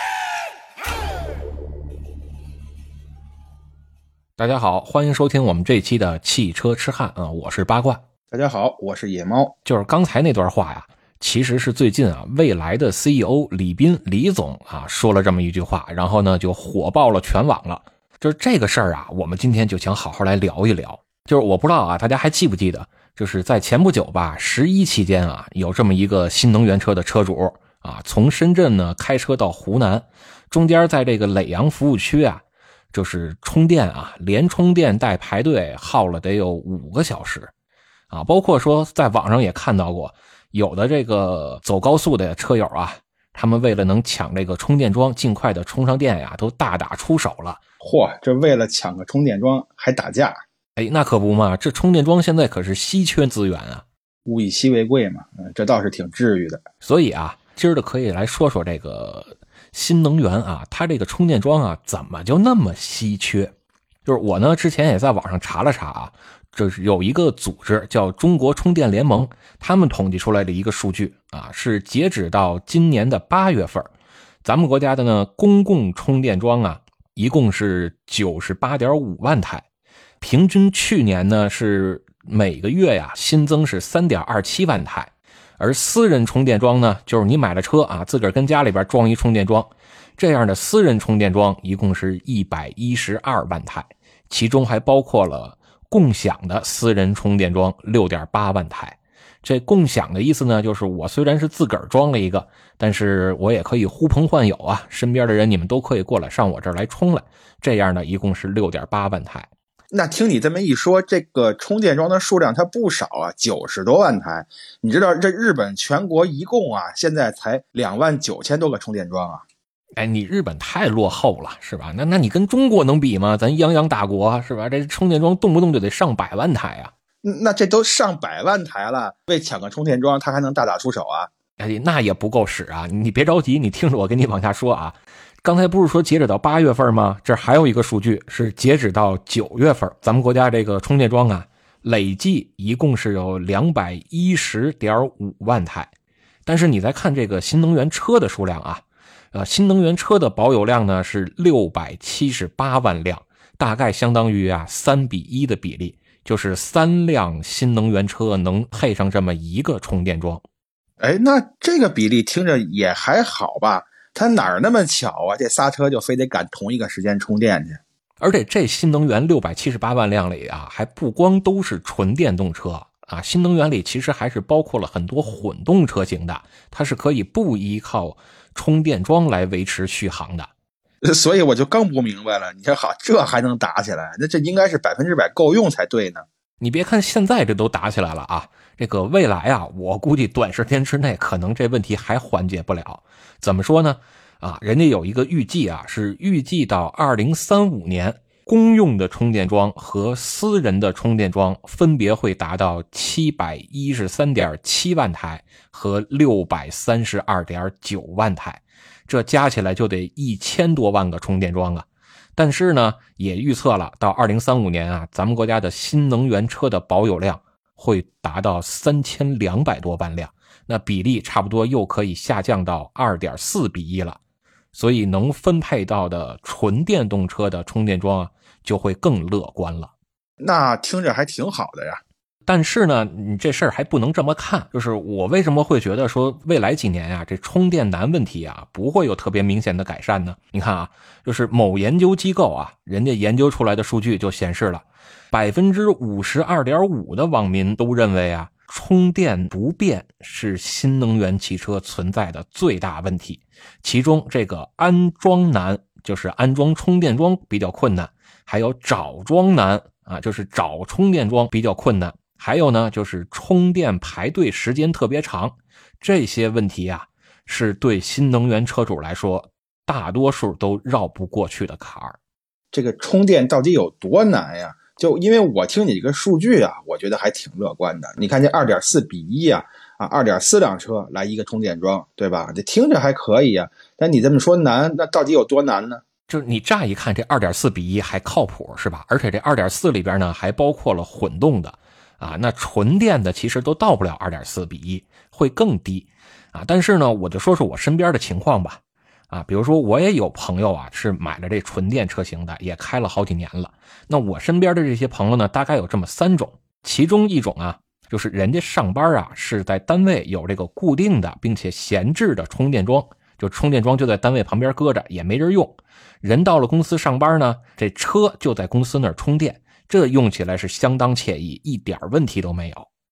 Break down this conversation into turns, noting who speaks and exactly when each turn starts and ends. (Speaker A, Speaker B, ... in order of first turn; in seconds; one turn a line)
Speaker A: 4.4-8.0
Speaker B: 8.3-9.6
Speaker A: 9.7-37.5
Speaker A: 38.1-47.6
Speaker B: 47.8-50.4
Speaker A: 50.8-53.9
Speaker B: 54.3-56.6
Speaker A: 56.8-63.5
Speaker A: 64.0-73.9
Speaker A: 74.4-79.7
Speaker A: 80.2-109.5
Speaker B: 109.9-119.4
Speaker A: 120.0-126.9
Speaker B: 127.2-131.3
Speaker A: 131.6-145.9
Speaker A: 146.5-160.4
Speaker B: 161.0-167.8
Speaker A: 168.2-180.5
Speaker B: 181.0-186.3
Speaker A: 186.6-224.2
Speaker A: 224.7-229.9
Speaker B: 230.4-232.0
Speaker A: 232.5-272.2
Speaker B: 272.7-286.0
Speaker A: 286.3-322.9